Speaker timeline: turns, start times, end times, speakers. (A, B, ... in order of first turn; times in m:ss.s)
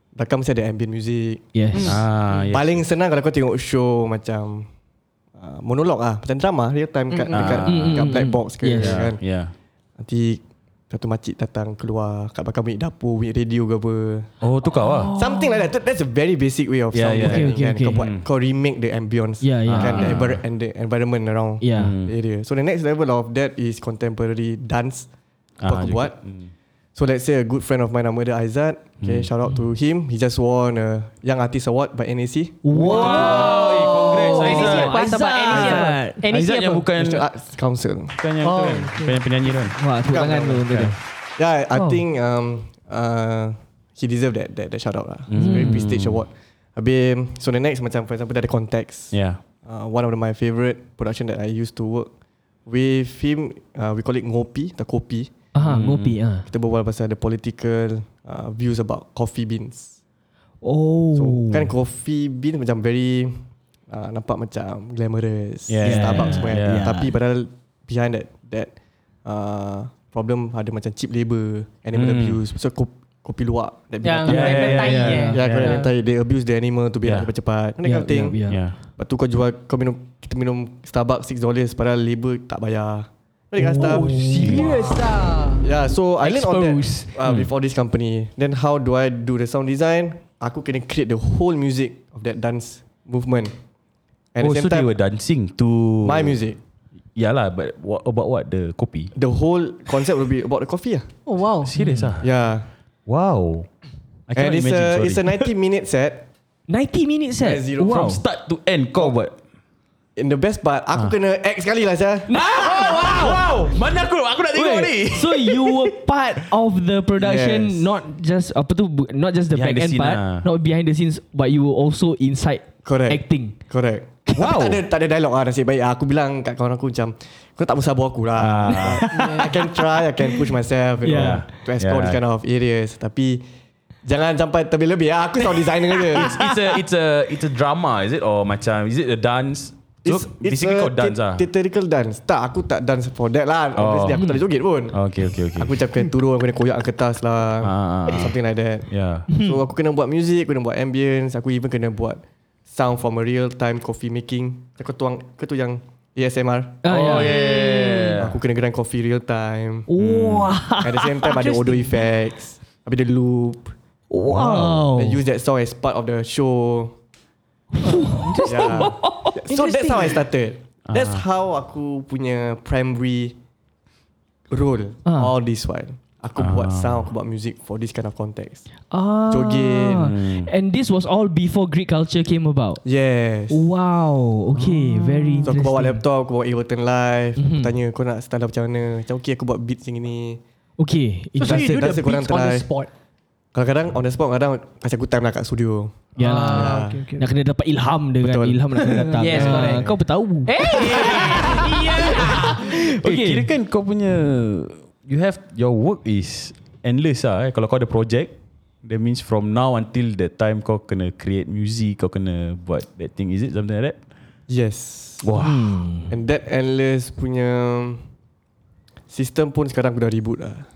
0:00.2-0:02.0 A
0:01.5-0:02.0 B
0:01.8-0:02.8 C
0:02.5-0:04.7 A
0:05.4-0:09.2 A
0:07.1-0:07.4 D
0:07.3-0:08.1 C
0:07.6-0:09.0 B
0:08.7-0:09.5 C
0:10.0-0:14.3 A
0:14.4-0:15.1 C
0:14.7-0:15.6 B
0:15.1-0:25.1 A
0:16.9-0:18.2 C
0:17.2-0:18.0 B
0:19.4-0:20.2 B
0:19.7-0:20.4 C
0:21.6-0:21.9 B
0:21.8-0:22.1 C
0:25.6-0:26.5 C
0:25.6-0:26.2 A
0:27.0-0:33.5 A
0:29.0-0:29.3 C
0:32.6-0:36.2 B
0:32.8-0:37.3 C
0:32.8-0:36.9 D
0:37.0-0:38.2 A
0:38.2-0:39.8 C
0:38.4-0:39.2 D
0:39.8-0:41.0 B
0:40.1-0:40.7 A
0:40.7-0:40.9 C
0:41.4-0:52.1 A
0:41.7-0:42.0 B
0:45.3-0:46.2 C
0:45.4-0:45.8 B
0:49.1-0:49.4 C
0:52.7-0:55.3 A
0:55.5-0:56.5 B
0:55.7-0:56.2 C
0:56.5-1:00.0 A
1:00.6-1:01.7 B
1:01.1-1:08.7 A
1:05.7-1:06.8 C
1:05.8-1:07.2 B
1:09.2-1:18.4 A
1:11.9-1:12.4 C
1:14.0-1:15.9 D
1:14.2-1:15.8 C
1:14.3-1:15.8 B
1:17.8-1:18.6 B
1:18.5-1:18.7 C
1:19.0-1:25.0 A
1:23.6-1:24.9 B
1:23.8-1:25.7 D
1:24.4-1:24.7 C
1:25.6-1:33.5 A
1:26.2-1:27.1 D
1:27.2-1:27.5 C
1:34.3-1:34.9 A
1:34.4-1:36.4 C
1:36.0-1:36.6 A
1:37.2-1:39.1 C
1:39.2-1:41.1 A
1:41.3-1:41.7 D
1:41.6-1:42.3 C
1:41.8-1:42.1 B
1:42.2-1:42.7 A
1:43.1-1:43.7 C
1:44.3-1:45.4 C
1:44.3-1:46.3 A
1:46.7-1:48.2 B
1:47.4-1:48.2 A
1:47.8-1:49.3 C
1:50.2-1:52.3 A
1:52.3-1:53.4 B
1:52.3-1:55.9 C
1:54.5-2:03.6 B
1:57.2-1:57.9 A
1:59.5-2:00.4 C
2:02.8-2:13.4 A
2:04.3-2:04.8 C
2:08.4-2:09.1 C
2:08.8-2:10.4 B
2:09.2-2:09.4 D
2:11.0-2:11.4 B
2:11.1-2:12.2 C
2:14.1-2:16.4 A
2:16.2-2:21.5 C
2:20.0-2:25.0 A
2:23.8-2:24.2 C
2:24.9-2:25.8 C
2:25.5-2:37.2 A
2:27.6-2:28.4 C
2:28.9-2:29.3 C
2:29.3-2:29.6 B
2:36.8-2:38.2 B
2:36.9-2:38.4 C
2:38.2-2:39.9 A
2:39.9-2:41.6 B
2:40.0-2:40.6 C
2:40.8-2:43.7 A
2:41.4-2:42.0 D
2:44.1-2:45.2 B
2:44.3-2:44.9 C
2:45.0-2:47.0 A
2:47.7-2:49.4 B
2:47.9-2:48.9 D
2:48.4-2:53.4 A
2:49.5-2:50.2 D
2:50.9-2:51.2 C
2:54.5-2:58.6 A
2:55.0-2:55.3 B
2:56.4-2:57.1 C
2:58.9-3:02.8 B
2:59.3-3:00.1 A
3:00.0-3:00.5 C
3:02.8-3:03.7 A
3:03.5-3:06.0 B
3:05.0-3:05.4 D
3:05.4-3:10.4 A
3:07.4-3:07.7 B
3:10.8-3:11.7 B
3:11.4-3:12.7 A
3:11.4-3:12.9 D
3:13.5-3:17.1 A
3:16.2-3:23.5 B
3:16.2-3:17.3 D
3:18.2-3:20.0 A
3:18.8-3:19.9 D
3:20.5-3:22.6 D
3:22.2-3:22.5 C
3:23.0-3:34.0 C
3:34.5-3:35.3 A
3:35.2-3:35.8 C
3:35.4-3:36.1 B
3:36.1-3:38.0 A
3:39.1-3:40.7 A